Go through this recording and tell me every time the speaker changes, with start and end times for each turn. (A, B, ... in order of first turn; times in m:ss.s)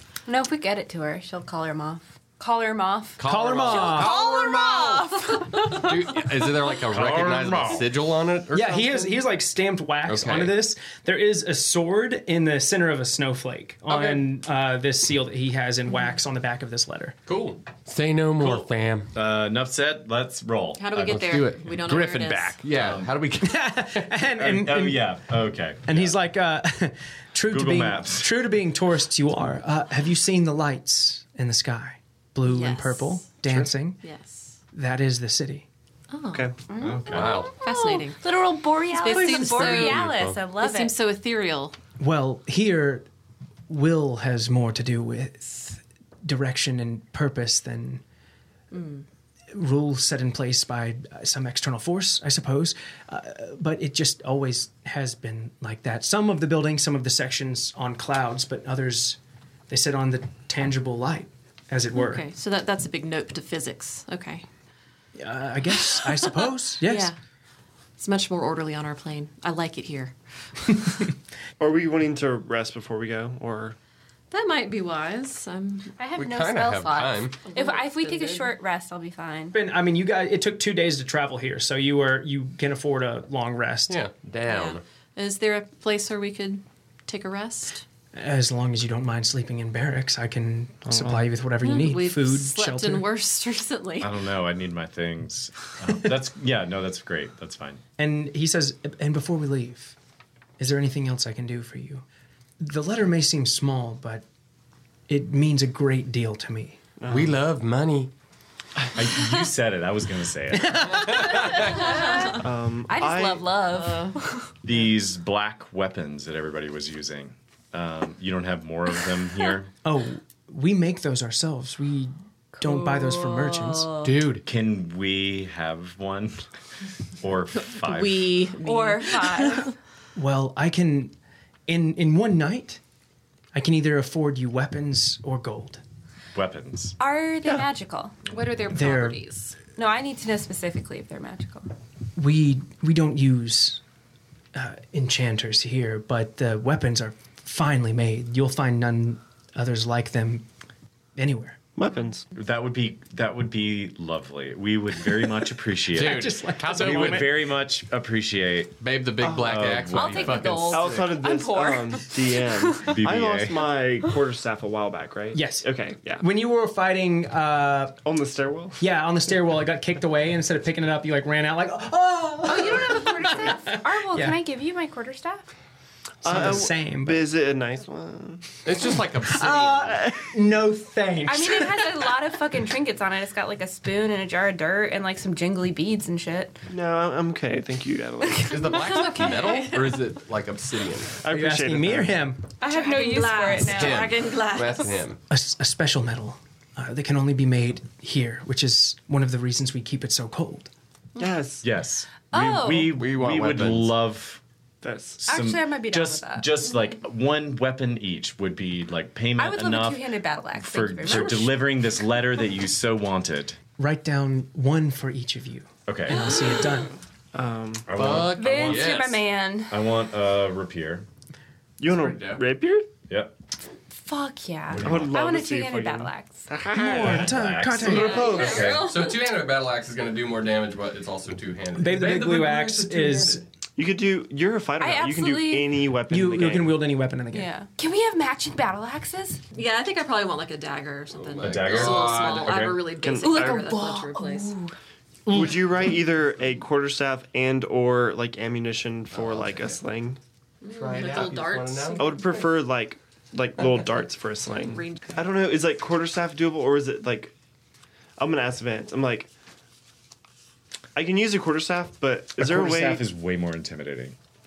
0:00.3-0:06.3 A
0:03.2-0:09.2 B
0:03.3-0:04.1 C
0:06.9-0:07.9 D
0:08.5-0:17.1 C
0:10.1-0:10.6 B
0:13.9-0:14.2 B
0:17.3-0:19.1 B
0:18.4-0:21.4 D
0:20.8-0:22.6 E
0:21.0-0:24.1 B
0:22.7-0:23.2 D
0:23.4-0:25.1 C
0:24.3-0:26.1 D
0:25.9-0:34.0 C
0:27.5-0:28.3 D
0:32.4-0:33.3 E
0:34.0-0:34.6 E
0:34.7-0:35.7 C
0:36.1-0:36.5 E
0:36.7-0:40.9 A
0:36.8-0:37.5 D
0:37.1-0:37.5 B
0:37.6-0:38.4 E
0:38.9-0:41.8 E
0:39.6-0:40.4 B
0:42.0-0:43.1 C
0:43.7-0:48.0 C
0:48.7-0:49.0 E
0:49.5-0:59.2 C
0:59.7-1:02.3 C
1:01.9-1:04.4 E
1:05.2-1:07.1 C
1:06.8-1:07.2 E
1:08.0-1:10.8 E
1:11.6-1:13.8 F
1:14.3-1:16.0 E
1:16.0-1:19.6 A
1:16.2-1:17.4 B
1:17.4-1:18.6 E
1:19.5-1:24.0 C
1:23.9-1:24.8 B
1:24.4-1:27.8 E
1:28.1-1:33.1 C
1:30.8-1:31.3 F
1:31.6-1:34.1 E
1:34.0-1:37.8 D
1:38.0-1:40.0 C
1:40.6-1:42.0 C
1:42.6-1:44.2 C
1:45.1-1:46.8 C
1:47.0-1:47.4 F
1:47.1-1:48.1 B
1:49.0-1:51.2 D
1:50.5-1:51.7 C
1:51.1-1:51.5 B
1:51.4-1:54.5 A
1:52.4-1:53.6 F
1:53.7-1:54.2 E
1:54.6-1:59.7 D
1:59.8-2:03.9 C
2:02.6-2:04.1 A
2:04.0-2:04.4 B
2:04.4-2:06.5 D
2:07.2-2:08.4 D
2:07.8-2:09.7 E
2:08.6-2:09.8 A
2:10.1-2:11.1 C
2:11.7-2:12.8 C
2:13.5-2:15.8 C
2:16.3-2:17.0 D
2:17.0-2:18.1 A
2:18.3-2:19.6 E
2:18.7-2:19.2 C
2:19.8-2:21.7 A
2:22.2-2:23.8 C
2:24.5-2:30.5 C
2:31.2-2:31.6 C
2:31.8-2:32.2 F
2:32.4-2:40.7 D
2:36.0-2:37.4 C
2:36.0-2:37.4 B
2:38.8-2:41.0 B
2:39.9-2:42.9 A
2:40.7-2:46.2 F
2:42.9-2:43.6 D
2:45.3-2:48.0 C
2:48.0-2:48.8 F
2:48.8-2:54.4 C
2:52.4-2:55.5 A
2:56.2-2:58.6 F
2:56.2-2:57.3 C
2:58.6-3:00.0 B
2:59.2-3:02.1 C
2:59.8-3:00.3 F
3:01.3-3:06.6 A
3:06.7-3:08.8 F
3:08.4-3:09.7 A
3:08.5-3:11.2 B
3:08.8-3:10.0 E
3:11.2-3:12.2 F
3:11.3-3:12.5 C
3:12.6-3:14.4 A
3:12.6-3:15.0 E
3:13.6-3:15.2 B
3:15.3-3:20.7 C
3:21.2-3:21.6 F
3:21.6-3:24.4 D
3:22.3-3:22.9 A
3:22.8-3:24.0 B
3:24.8-3:25.2 F
3:25.2-3:33.6 D
3:25.3-3:26.5 A
3:29.4-3:31.6 A
3:33.8-3:37.0 C
3:35.9-3:36.4 D
3:37.3-3:37.9 F
3:37.9-3:39.2 D
3:38.0-3:39.2 B
3:38.3-3:39.8 A
3:39.7-3:41.1 D
3:41.8-3:42.9 F
3:41.9-3:42.4 B
3:43.1-3:43.3 D
3:44.0-3:46.4 A
3:44.7-3:45.1 D
3:44.8-3:47.4 F
3:46.8-3:48.7 C
3:46.9-3:48.9 D
3:47.8-3:49.1 A
3:47.9-3:53.4 B
3:48.3-3:48.8 E
3:51.8-3:53.4 C
3:53.8-3:56.8 F
3:54.8-3:55.7 A
3:56.1-3:57.5 C
3:57.3-3:59.4 A
3:59.5-4:04.6 E
4:01.1-4:02.8 B
4:01.4-4:02.8 D
4:02.9-4:03.7 F
4:03.2-4:04.8 A
4:05.3-4:10.2 F
4:09.1-4:09.8 B
4:10.6-4:12.6 E
4:10.8-4:12.1 B
4:12.0-4:17.3 F
4:14.5-4:15.0 E
4:18.2-4:19.3 F
4:21.0-4:23.0 F
4:22.4-4:24.1 D